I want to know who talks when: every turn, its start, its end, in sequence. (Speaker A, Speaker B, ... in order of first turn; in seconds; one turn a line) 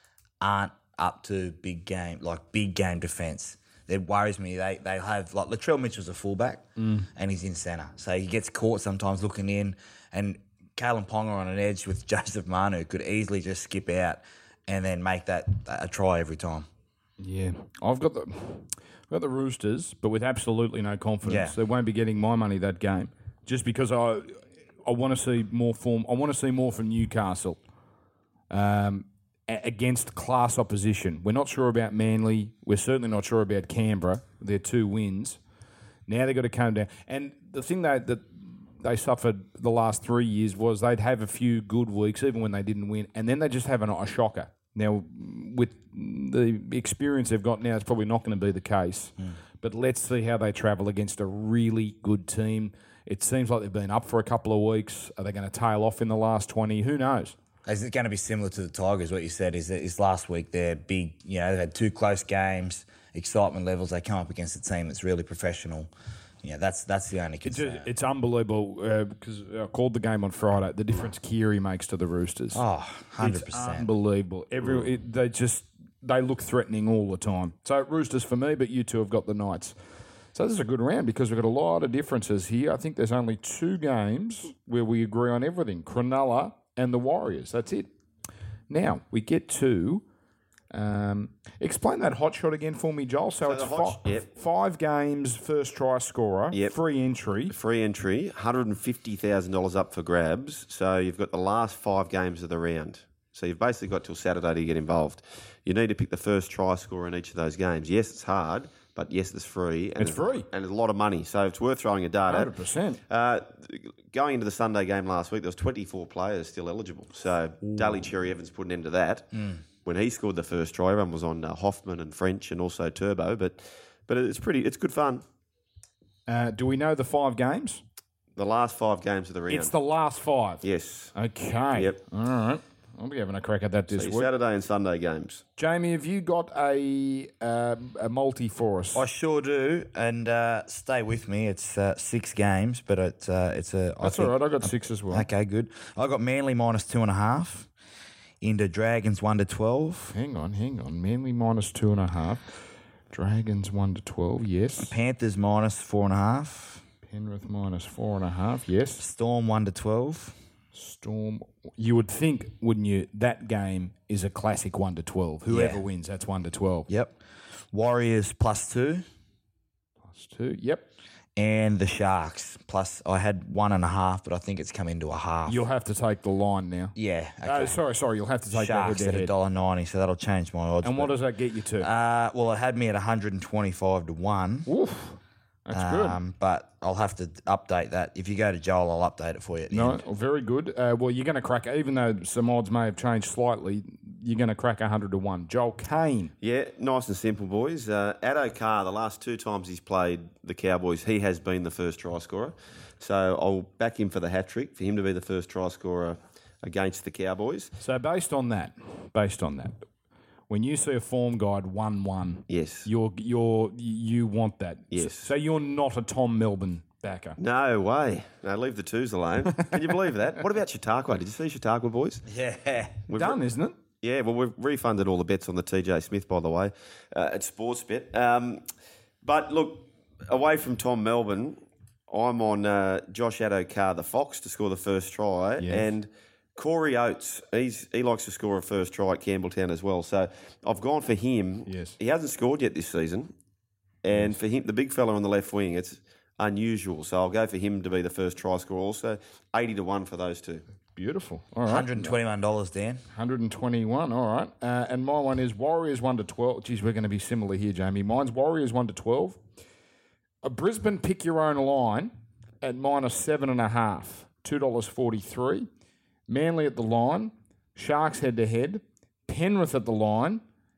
Speaker A: 0.4-16.7
Speaker B: 6.8-7.1
Speaker B: 17.2-27.6
Speaker A: 21.2-21.5
Speaker B: 28.5-35.4
Speaker B: 36.1-57.4
Speaker A: 57.6-65.9
Speaker A: 66.4-67.9
Speaker B: 67.4-72.6
Speaker A: 72.5-73.9
Speaker B: 73.2-79.7
Speaker B: 80.3-87.9
Speaker B: 88.7-90.0
Speaker B: 90.7-97.5
Speaker C: 93.4-94.3
Speaker C: 97.5-112.5
Speaker B: 110.0-110.5
Speaker B: 112.3-113.0
Speaker C: 113.1-125.2
Speaker B: 117.6-118.0
Speaker B: 126.3-127.8
Speaker C: 128.3-129.7
Speaker B: 129.5-130.6
Speaker C: 130.6-131.1
Speaker B: 131.1-134.3
Speaker C: 131.7-132.0
Speaker C: 133.9-135.4
Speaker B: 135.6-139.0
Speaker A: 138.9-147.7
Speaker B: 144.0-145.3
Speaker A: 148.4-150.2
Speaker B: 150.1-152.6
Speaker B: 153.1-154.9
Speaker A: 154.8-156.8
Speaker B: 157.0-159.0
Speaker A: 159.0-160.4
Speaker B: 160.7-166.9
Speaker A: 165.5-165.8
Speaker A: 166.9-167.2
Speaker A: 167.7-169.0
Speaker B: 170.1-170.8
Speaker A: 171.3-175.6
Speaker B: 175.5-176.9
Speaker A: 176.9-177.8
Speaker B: 177.4-179.3
Speaker A: 178.5-181.1
Speaker B: 180.8-181.9
Speaker A: 181.8-184.7
Speaker B: 184.7-186.2
Speaker A: 185.7-190.0
Speaker B: 189.7-196.3
Speaker C: 196.4-207.8
Speaker B: 207.8-209.8
Speaker B: 210.5-217.4
Speaker C: 212.5-212.9
Speaker C: 214.9-215.3
Speaker C: 217.4-222.3
Speaker A: 222.3-223.0
Speaker C: 223.1-223.4
Speaker B: 223.2-223.8
Speaker C: 224.0-228.6
Speaker C: 229.2-243.3
Speaker B: 235.6-235.9
Speaker B: 241.7-241.9
Speaker C: 244.0-250.6
Speaker B: 250.9-252.1
Speaker A: 251.6-253.0
Speaker B: 253.1-259.4
Speaker B: 260.4-265.7
Speaker B: 266.3-270.4